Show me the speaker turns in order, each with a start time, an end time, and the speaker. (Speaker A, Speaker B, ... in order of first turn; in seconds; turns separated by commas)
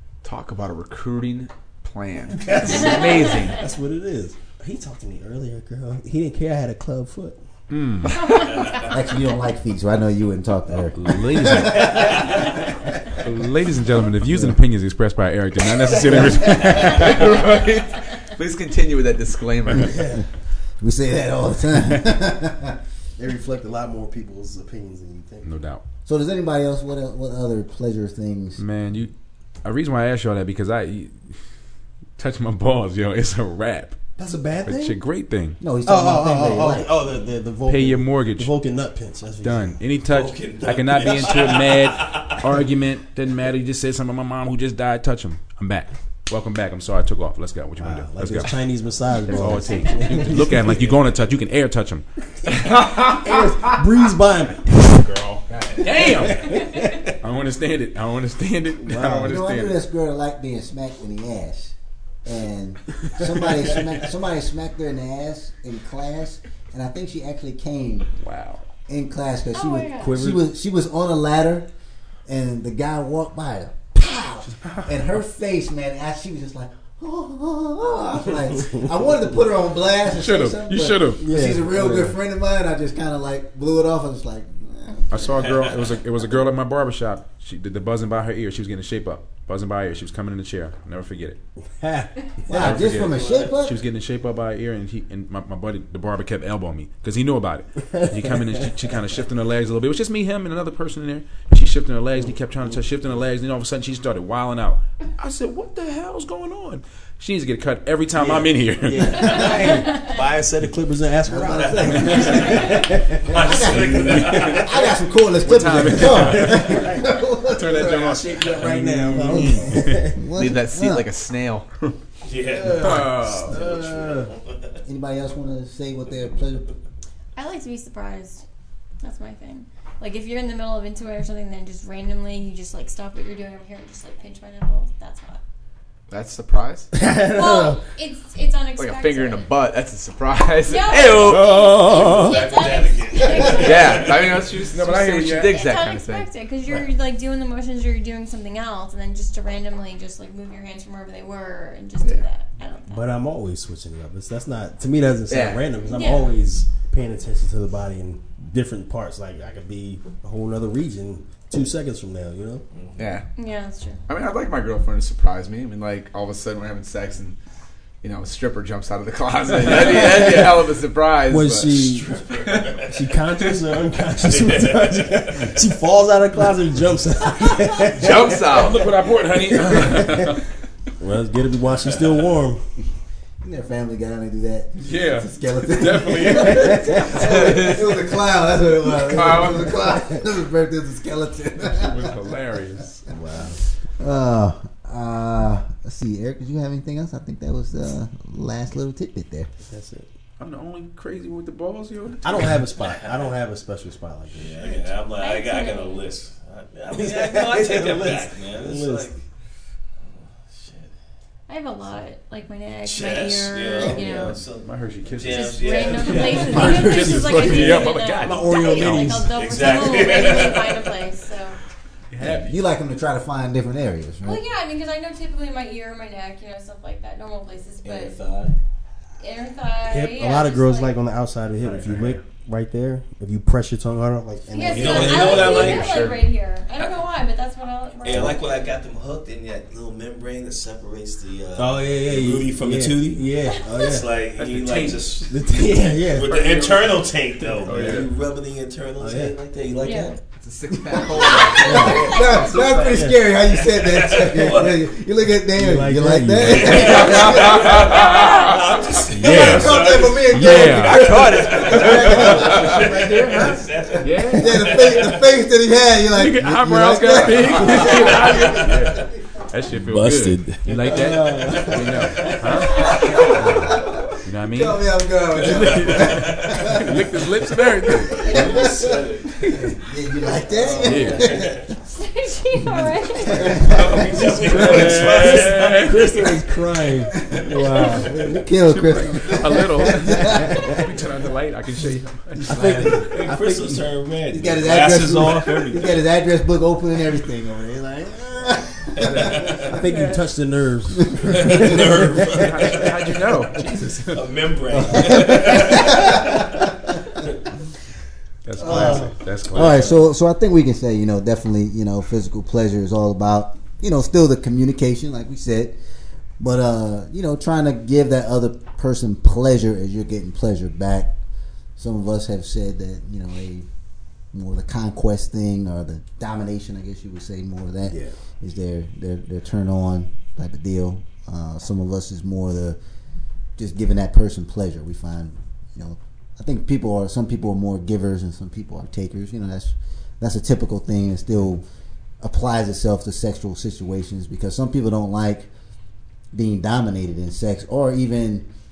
Speaker A: 0.2-3.6, Speaker B: 2.5-7.4, Speaker C: 7.7-8.5, Speaker D: 8.2-8.7, Speaker E: 8.7-12.3, Speaker C: 10.9-12.2, Speaker C: 13.2-17.3, Speaker E: 16.1-16.8, Speaker A: 16.9-20.0, Speaker B: 19.8-20.2, Speaker E: 20.8-22.8, Speaker B: 23.2-25.5, Speaker C: 25.4-25.8, Speaker E: 26.1-28.6, Speaker C: 28.6-29.1, Speaker C: 29.6-31.2, Speaker C: 32.2-34.0, Speaker B: 34.2-35.0, Speaker C: 34.6-35.6, Speaker E: 35.6-36.9, Speaker B: 35.8-39.8, Speaker C: 37.7-38.5, Speaker C: 39.4-48.6, Speaker F: 40.1-42.4, Speaker B: 47.8-50.9, Speaker C: 49.2-52.0, Speaker B: 53.1-54.9, Speaker C: 54.8-56.7, Speaker B: 55.8-57.1, Speaker C: 57.2-59.8, Speaker B: 58.8-59.4, Speaker E: 59.2-68.1, Speaker C: 68.2-68.6, Speaker E: 68.9-71.7, Speaker D: 69.5-70.2, Speaker B: 70.0-70.4, Speaker E: 72.3-85.2, Speaker C: 80.1-81.4, Speaker B: 81.2-82.2, Speaker C: 85.1-91.4, Speaker F: 85.4-85.7, Speaker B: 91.8-92.8, Speaker E: 92.5-93.8, Speaker C: 92.5-109.6, Speaker F: 92.8-93.5, Speaker B: 98.3-98.6, Speaker B: 108.1-114.5, Speaker E: 111.3-112.8, Speaker F: 111.4-112.7, Speaker F: 113.2-114.9, Speaker E: 113.3-118.0, Speaker C: 115.4-116.9, Speaker B: 116.1-116.8, Speaker C: 117.5-120.0, Speaker B: 117.7-120.2, Speaker E: 119.2-121.1, Speaker A: 120.3-121.7, Speaker F: 122.2-124.8, Speaker B: 122.5-124.3, Speaker C: 122.8-123.6, Speaker E: 124.8-126.7, Speaker D: 127.3-128.4, Speaker D: 129.0-135.4, Speaker A: 136.1-136.9, Speaker B: 136.9-137.8, Speaker D: 137.3-139.5, Speaker A: 138.8-142.2, Speaker D: 140.6-144.0, Speaker F: 140.9-144.6, Speaker B: 141.2-142.4, Speaker A: 143.6-146.3, Speaker C: 144.7-145.6, Speaker D: 145.5-153.1, Speaker B: 152.9-162.6, Speaker A: 155.3-155.7, Speaker D: 155.8-156.4, Speaker F: 162.7-163.1, Speaker A: 163.0-163.2, Speaker D: 163.3-164.0, Speaker A: 164.1-167.3, Speaker A: 168.0-171.9, Speaker B: 169.7-170.5, Speaker B: 171.3-172.1, Speaker F: 171.8-173.0, Speaker A: 172.4-172.7, Speaker B: 172.9-178.6, Speaker F: 174.2-175.2, Speaker A: 177.9-178.8, Speaker C: 178.4-180.4, Speaker B: 179.6-180.2, Speaker B: 181.0-182.6, Speaker E: 183.4-192.1, Speaker C: 184.8-187.2, Speaker A: 187.2-187.8, Speaker C: 189.1-189.8, Speaker C: 191.7-193.0, Speaker B: 193.1-193.6, Speaker E: 194.0-199.5, Speaker B: 199.6-200.1, Speaker C: 200.4-202.6, Speaker B: 202.2-204.7, Speaker F: 202.8-203.2, Speaker F: 204.4-209.2, Speaker D: 205.1-206.1, Speaker B: 206.9-209.1, Speaker F: 210.0-210.9, Speaker D: 211.5-214.3, Speaker F: 212.8-216.4, Speaker C: 214.2-219.3, Speaker D: 215.2-221.6, Speaker B: 216.0-219.3, Speaker E: 216.4-217.2, Speaker F: 219.3-220.9, Speaker C: 222.1-222.5, Speaker E: 222.2-224.4, Speaker D: 224.2-228.2, Speaker F: 227.8-228.5, Speaker D: 229.2-231.0, Speaker B: 229.8-235.6, Speaker C: 231.7-232.2, Speaker D: 234.5-238.4, Speaker F: 234.6-235.9, Speaker A: 235.3-236.3, Speaker F: 238.0-250.2, Speaker B: 238.1-238.3, Speaker B: 241.6-244.1, Speaker D: 243.4-243.9, Speaker C: 244.5-245.2, Speaker B: 245.3-246.3, Speaker C: 246.3-248.1, Speaker B: 249.0-249.3, Speaker D: 249.8-250.1, Speaker A: 250.3-251.9, Speaker E: 250.7-257.7, Speaker F: 251.1-254.9, Speaker D: 251.4-252.6, Speaker B: 251.6-252.0, Speaker B: 252.8-253.2, Speaker B: 255.5-257.1, Speaker F: 256.4-265.3, Speaker C: 256.6-261.1, Speaker D: 257.9-258.5, Speaker E: 259.1-263.3, Speaker A: 260.9-262.1, Speaker C: 262.1-262.8, Speaker B: 263.0-263.6, Speaker C: 264.0-264.8, Speaker E: 264.3-268.6, Speaker C: 266.1-274.8, Speaker F: 267.3-268.9, Speaker B: 269.8-273.4, Speaker F: 272.0-272.4, Speaker E: 272.7-277.1, Speaker C: 275.4-278.4, Speaker F: 275.4-276.6, Speaker F: 278.0-279.4, Speaker E: 278.3-281.7, Speaker F: 280.5-281.7, Speaker C: 280.8-281.3, Speaker D: 281.9-283.6, Speaker F: 283.2-286.3, Speaker B: 283.9-288.4, Speaker C: 284.5-286.1, Speaker E: 287.3-290.6, Speaker C: 288.6-292.8, Speaker B: 290.2-290.7, Speaker E: 292.4-293.1, Speaker B: 292.5-293.8, Speaker F: 292.7-296.0, Speaker E: 294.3-299.5, Speaker C: 299.0-300.2, Speaker F: 299.0-299.6, Speaker B: 299.7-302.5, Speaker F: 301.3-303.6, Speaker C: 302.2-304.3, Speaker F: 304.1-307.3, Speaker E: 304.9-306.4, Speaker C: 308.4-310.0, Speaker E: 308.6-315.8, Speaker B: 308.6-309.1, Speaker E: 316.4-321.1, Speaker E: 321.8-323.7, Speaker E: 324.3-332.8, Speaker B: 327.8-328.1, Speaker E: 333.6-341.6, Speaker E: 342.2-345.5, Speaker E: 346.3-348.4